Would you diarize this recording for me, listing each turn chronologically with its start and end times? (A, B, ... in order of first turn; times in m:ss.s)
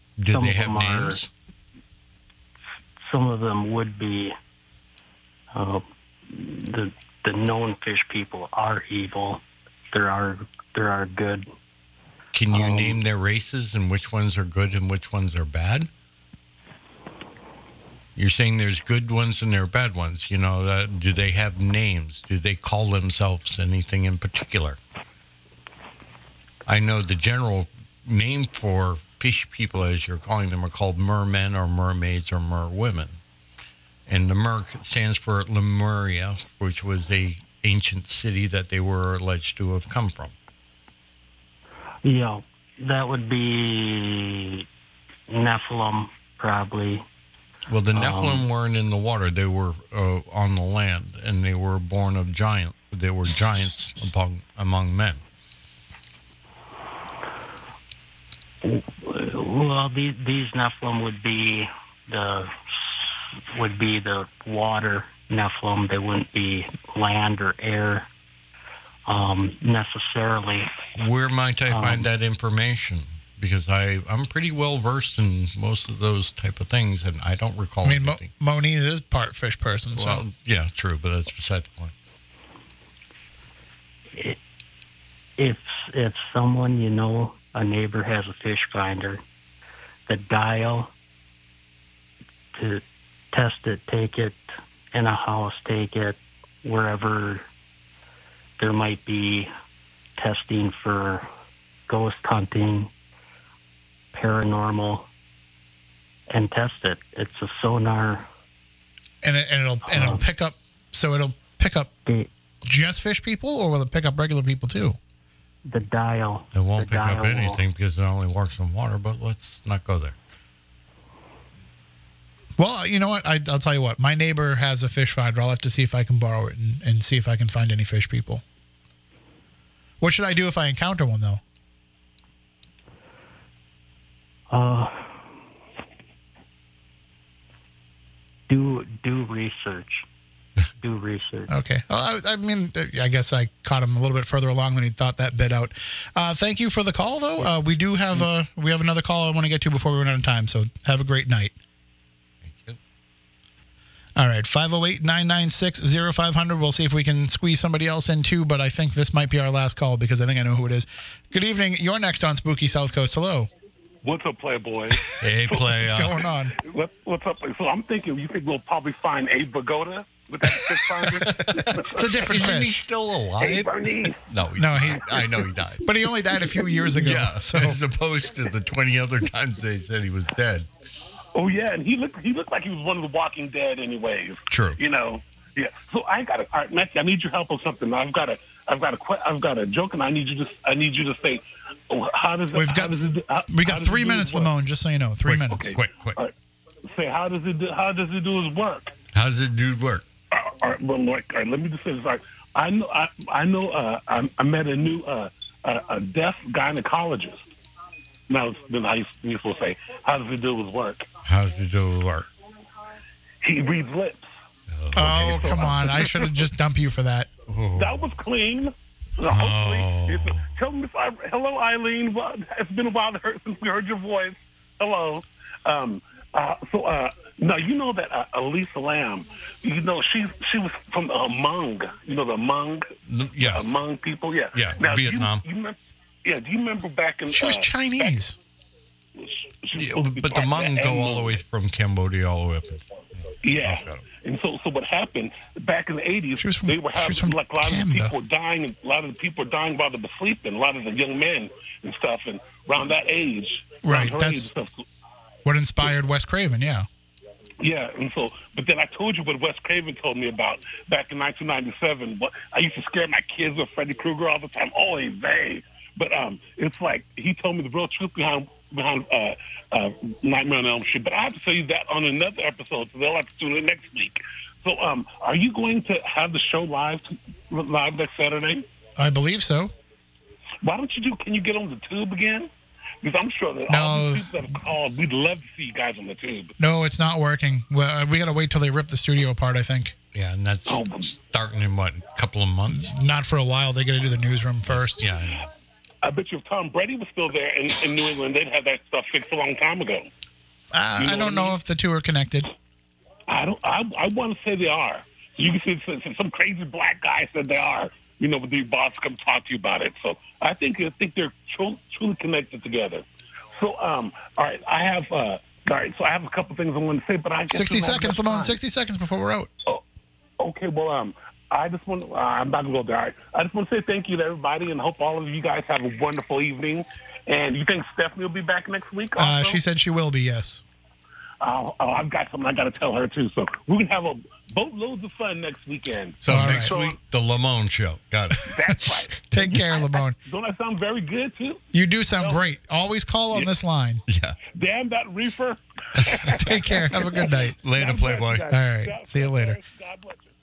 0:00.2-0:01.3 A
0:00.3-0:01.2 B
0:03.0-0:04.4 B
0:05.5-0:11.5 B
0:12.3-0:15.9 A
0:12.5-0:13.0 B
0:18.2-0:24.8 A
0:26.7-0:33.2 A
0:34.1-0:40.3 A
0:42.0-0:44.6 B
0:45.3-0:47.0 B
0:47.7-0:55.2 A
0:47.9-0:48.4 B
0:58.6-1:08.1 B
1:09.1-1:10.8 B
1:11.0-1:18.3 A
1:11.7-1:12.1 B
1:17.8-1:20.2 C
1:19.9-1:21.9 A
1:25.4-1:29.2 B
1:30.1-1:30.9 B
1:32.5-1:34.4 B
1:34.9-1:37.4 B
1:38.6-1:39.5 B
1:40.2-1:41.3 B
1:41.9-1:42.9 B
1:44.1-1:45.1 B
1:46.3-1:48.3 B
1:49.2-1:51.9 C
1:49.9-1:50.2 B
1:52.6-1:55.0 C
1:55.7-1:57.6 B
1:56.5-2:00.2 A
2:02.6-2:08.4 C
2:10.0-2:11.4 C
2:14.5-2:15.2 B
2:18.5-2:20.0 B
2:20.8-2:21.5 B
2:21.5-2:31.5 C
2:32.4-2:32.8 A
2:34.2-2:43.5 C
2:44.0-2:45.7 D
2:44.9-2:46.5 C
2:45.2-2:46.2 A
2:46.5-2:52.3 D
2:50.6-2:52.7 C
2:51.1-2:53.7 A
2:53.4-2:54.2 D
2:54.2-2:55.9 A
2:54.6-2:55.2 C
2:55.8-2:57.8 C
2:56.9-3:00.7 A
3:01.3-3:14.5 D
3:04.5-3:04.8 A
3:12.5-3:15.7 C
3:15.2-3:16.2 A
3:15.5-3:16.3 D
3:16.9-3:18.9 D
3:19.1-3:20.0 A
3:20.3-3:27.5 D
3:28.3-3:31.0 D
3:31.2-3:32.3 A
3:33.4-3:34.2 D
3:34.7-3:35.8 A
3:34.9-3:37.3 C
3:35.2-3:36.4 D
3:37.5-3:38.1 A
3:37.8-3:58.2 D
3:39.3-3:40.5 A
3:53.1-3:53.6 A
3:54.5-3:55.4 A
3:57.3-3:58.4 C
3:59.2-4:01.4 D
3:59.8-4:04.0 A
4:03.4-4:14.8 D
4:06.4-4:08.1 C
4:13.8-4:14.5 C
4:15.4-4:16.9 C
4:17.6-4:38.6 D
4:39.0-4:39.7 C
4:40.6-4:42.5 D
4:43.0-4:46.5 D
4:43.7-4:44.2 C
4:46.6-4:49.9 C
4:50.1-4:52.9 A
4:50.7-4:51.1 D
4:52.7-4:55.1 C
4:54.7-4:55.4 A
4:56.0-5:00.1 D
5:00.7-5:02.5 C
5:01.0-5:01.6 D
5:03.3-5:13.0 D
5:13.5-5:18.6 D
5:17.5-5:19.5 C
5:20.4-5:29.6 D
5:29.2-5:30.6 C
5:31.4-5:37.0 D
5:36.2-5:38.5 A
5:36.3-5:36.7 C
5:38.4-5:42.4 D
5:39.3-5:40.2 C
5:41.7-5:44.0 C
5:44.1-5:44.4 A
5:44.4-5:50.3 D
5:46.3-5:47.6 C
5:47.6-5:48.5 A
5:48.5-5:49.6 C